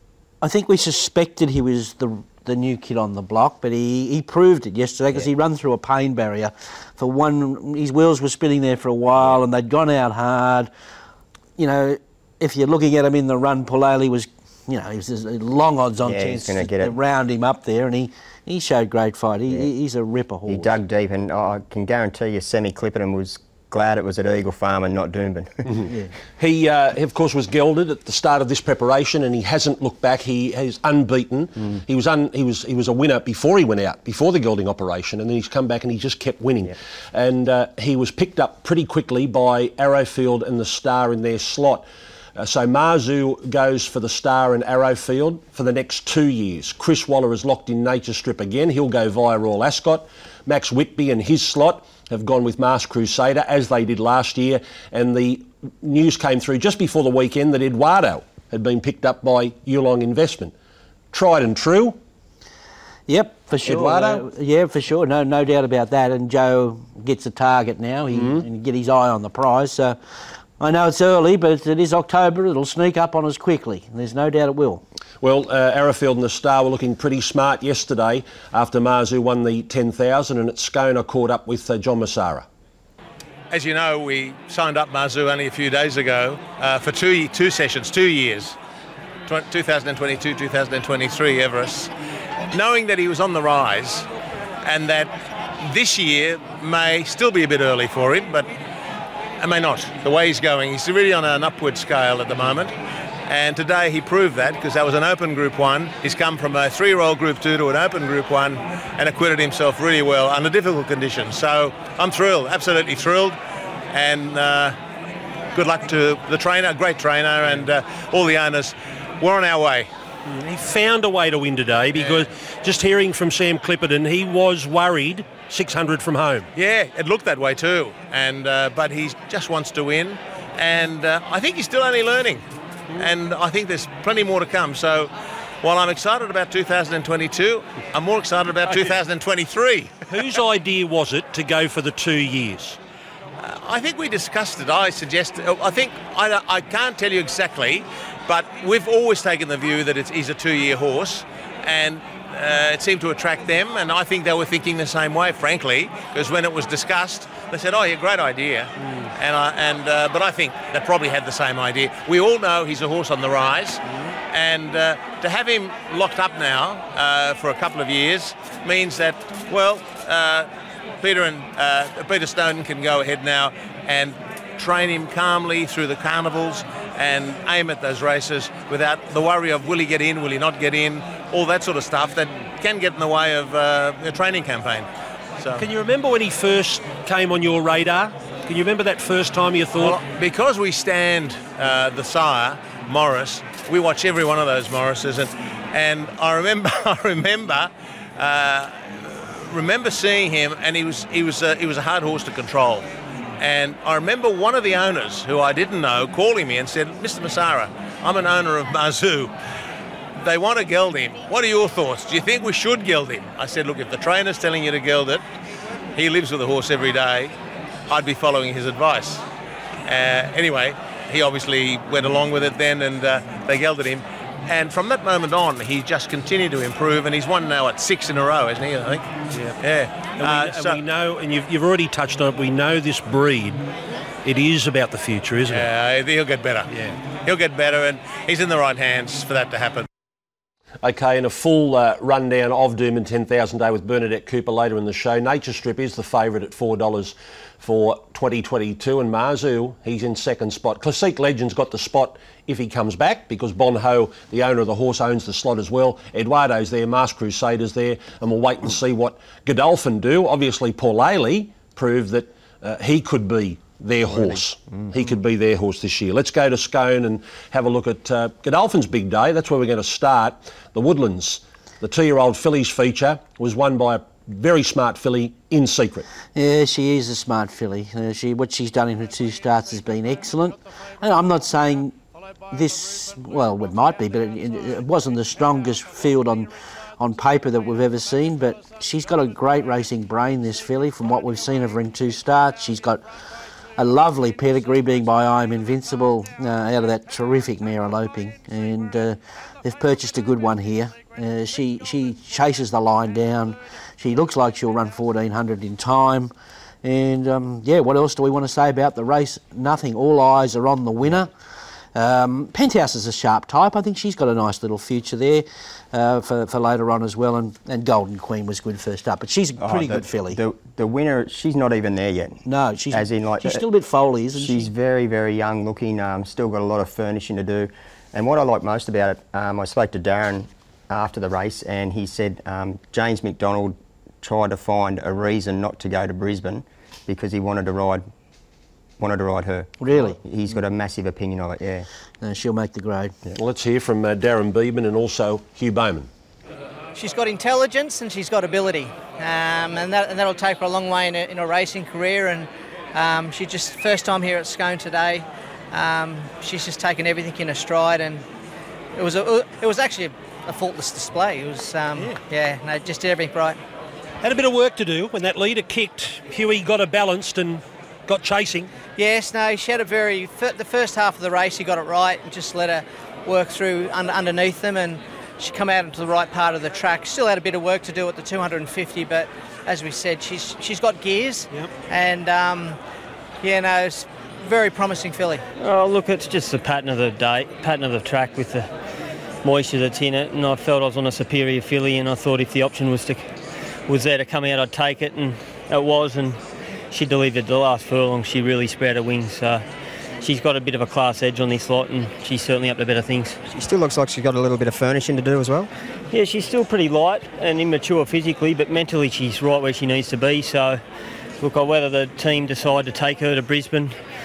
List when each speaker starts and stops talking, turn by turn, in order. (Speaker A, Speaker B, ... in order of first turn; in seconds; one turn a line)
Speaker A: 0.4-10.7
Speaker A: 11.6-20.7
Speaker B: 16.1-16.9
Speaker B: 20.5-25.6
Speaker C: 25.7-41.8
Speaker C: 42.4-60.5
Speaker C: 61.1-62.0
Speaker A: 63.1-70.0
Speaker C: 63.6-64.2
Speaker C: 68.1-68.5
Speaker A: 70.6-74.8
Speaker C: 75.2-82.5
Speaker D: 83.5-88.6
Speaker D: 89.3-91.9
Speaker D: 92.5-94.1
Speaker D: 94.6-98.5
Speaker D: 99.4-102.8
Speaker D: 103.3-113.4
Speaker D: 113.9-114.8
Speaker D: 115.5-119.9
Speaker C: 120.3-126.5
Speaker D: 126.5-132.4
Speaker D: 133.0-139.9
Speaker C: 140.1-142.8
Speaker D: 143.4-170.5
Speaker D: 171.0-185.7
Speaker C: 185.6-190.0
Speaker D: 189.7-202.9
Speaker D: 203.4-209.3
Speaker D: 210.2-215.2
Speaker D: 215.9-217.3
Speaker D: 217.9-219.2
Speaker D: 219.9-229.1
Speaker D: 229.6-230.8
Speaker C: 230.2-233.7
Speaker C: 234.2-235.7
Speaker D: 235.5-239.9
Speaker C: 240.8-276.1
Speaker B: 264.1-264.9
Speaker A: 276.4-282.0
Speaker A: 282.5-286.5
Speaker A: 287.0-293.0
Speaker A: 293.8-306.3
Speaker A: 306.8-311.3
Speaker A: 311.9-320.4
Speaker B: 319.6-323.6
Speaker A: 322.5-324.7
Speaker B: 324.4-338.1
Speaker B: 339.0-341.9
Speaker A: 339.8-340.2
Speaker A: 342.2-343.1
Speaker C: 343.4-346.1
Speaker E: 346.9-358.2
Speaker E: 358.9-363.6
Speaker C: 364.2-368.7
Speaker E: 369.0-382.8
Speaker E: 383.4-385.4
Speaker F: 385.6-388.7
Speaker F: 389.4-393.3
Speaker F: 393.9-399.6
Speaker F: 400.2-403.4
Speaker B: 403.5-405.7
Speaker F: 406.1-410.8
Speaker F: 411.4-414.0